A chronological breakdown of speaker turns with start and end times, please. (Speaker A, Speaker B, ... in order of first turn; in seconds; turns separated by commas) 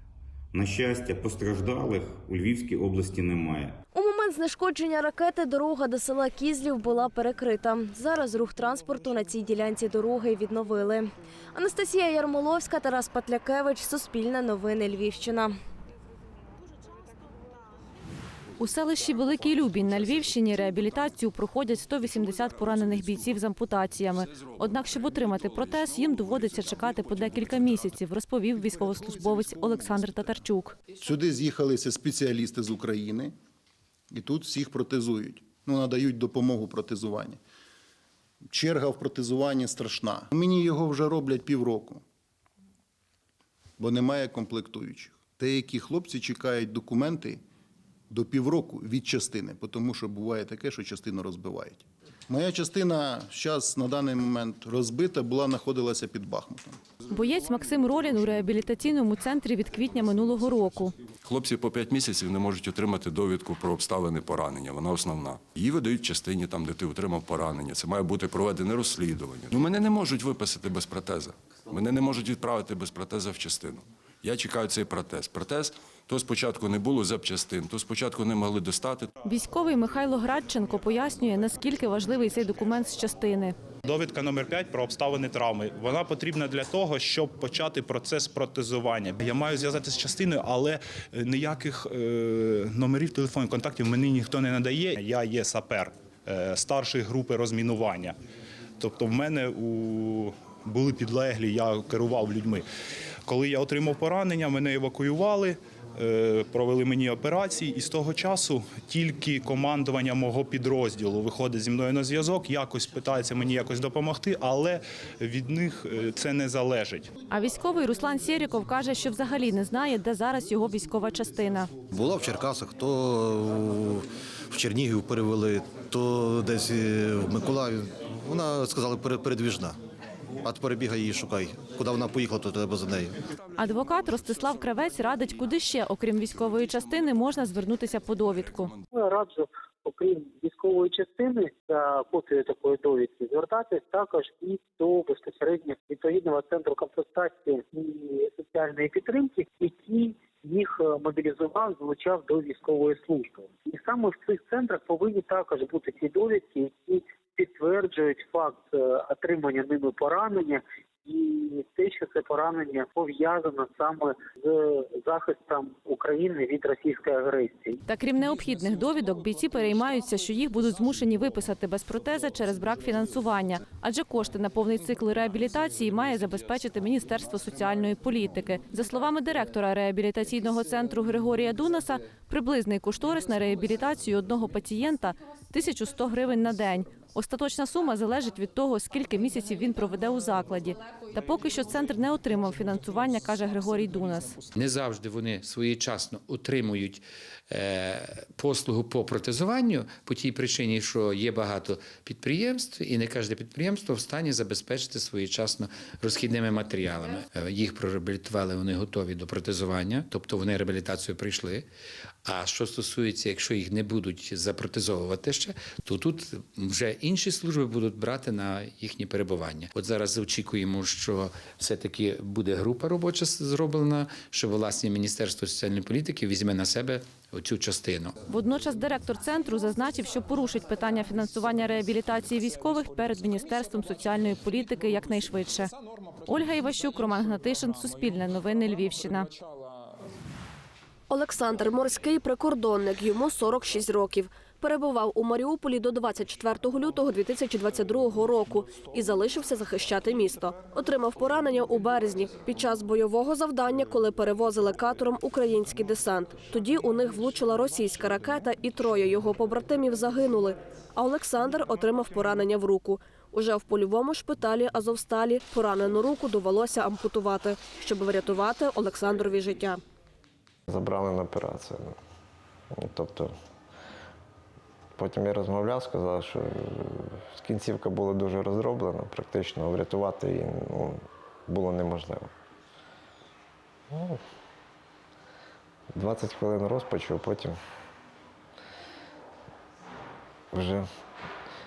Speaker A: 0.6-3.8, Speaker B: 3.9-15.5, Speaker C: 18.6-30.8, Speaker D: 22.4-23.3, Speaker D: 24.3-27.9, Speaker E: 28.6-30.4, Speaker E: 31.0-33.3, Speaker E: 34.1-37.4, Speaker E: 38.5-42.0, Speaker E: 43.8-47.4, Speaker E: 48.1-56.8, Speaker C: 57.1-60.9, Speaker D: 61.2-79.1, Speaker C: 79.2-83.6, Speaker F: 83.9-98.2, Speaker F: 98.8-102.7, Speaker F: 103.3-117.1, Speaker C: 117.3-121.7, Speaker G: 121.9-129.8, Speaker G: 130.4-133.2, Speaker C: 133.6-138.7, Speaker D: 138.2-138.8, Speaker H: 138.9-167.8, Speaker C: 167.9-194.3, Speaker I: 194.5-211.7, Speaker I: 212.2-228.2, Speaker C: 228.3-235.7, Speaker C: 236.3-239.3, Speaker J: 241.1-269.8, Speaker K: 270.7-272.0, Speaker K: 272.7-273.4, Speaker K: 275.0-282.3, Speaker K: 283.9-284.2, Speaker K: 285.9-287.6, Speaker K: 290.5-290.9